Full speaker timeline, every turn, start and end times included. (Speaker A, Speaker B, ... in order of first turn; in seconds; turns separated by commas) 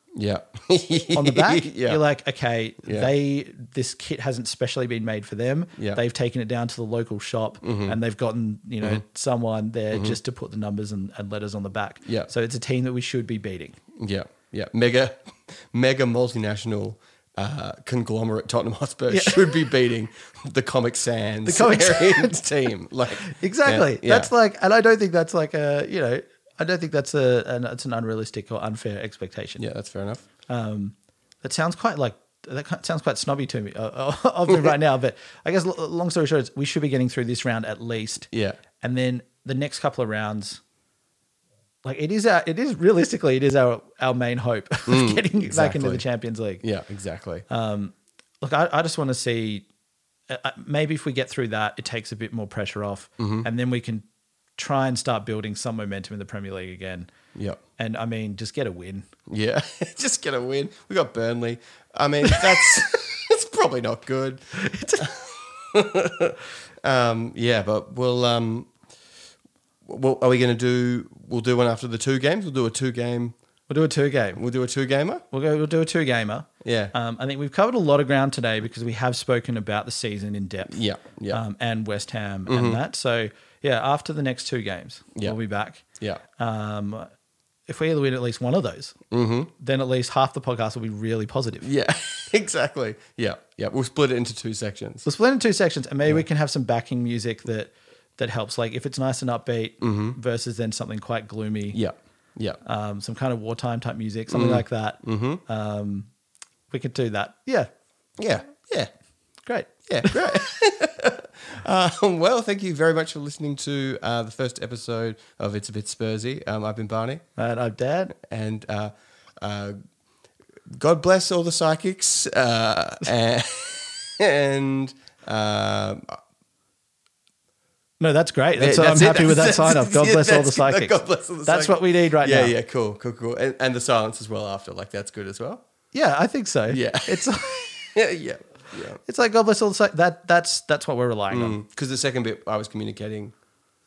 Speaker A: 0.1-2.0, Speaker B: 1.1-13.8, Speaker A: 2.8-3.1, Speaker A: 7.6-8.0, Speaker A: 12.0-12.3, Speaker A: 13.9-24.3, Speaker B: 19.1-19.5, Speaker B: 21.4-22.4, Speaker B: 23.2-29.6, Speaker A: 29.6-30.3, Speaker B: 30.5-38.3, Speaker A: 38.3-38.6, Speaker B: 38.8-40.6, Speaker B: 41.8-46.6, Speaker A: 44.9-46.0, Speaker A: 46.6-47.4, Speaker B: 47.5-49.6, Speaker B: 50.3-54.0, Speaker A: 53.2-53.5, Speaker B: 54.6-57.1, Speaker A: 57.3-57.6, Speaker B: 57.8-59.1, Speaker A: 59.3-68.7, Speaker B: 64.5-65.1, Speaker A: 69.8-73.3, Speaker B: 73.7-74.4, Speaker A: 74.3-75.2, Speaker B: 75.3-85.8, Speaker A: 76.6-76.9, Speaker A: 80.7-81.4, Speaker A: 82.5-82.8, Speaker B: 86.4-87.1, Speaker B: 87.7-89.0, Speaker A: 89.1-89.5, Speaker B: 89.6-91.7, Speaker A: 91.6-95.0, Speaker B: 95.0-101.8, Speaker A: 99.8-100.2, Speaker A: 101.7-102.6, Speaker B: 102.6-106.1, Speaker A: 104.3-105.4, Speaker B: 106.7-107.7, Speaker A: 108.2-108.9, Speaker B: 109.5-110.5, Speaker A: 109.9-117.2, Speaker B: 117.4-118.1, Speaker A: 118.1-119.8, Speaker A: 120.7-126.2, Speaker B: 128.0-132.5, Speaker A: 128.6-135.6, Speaker B: 135.9-137.9, Speaker A: 136.7-139.0, Speaker B: 139.1-141.6, Speaker A: 141.3-143.3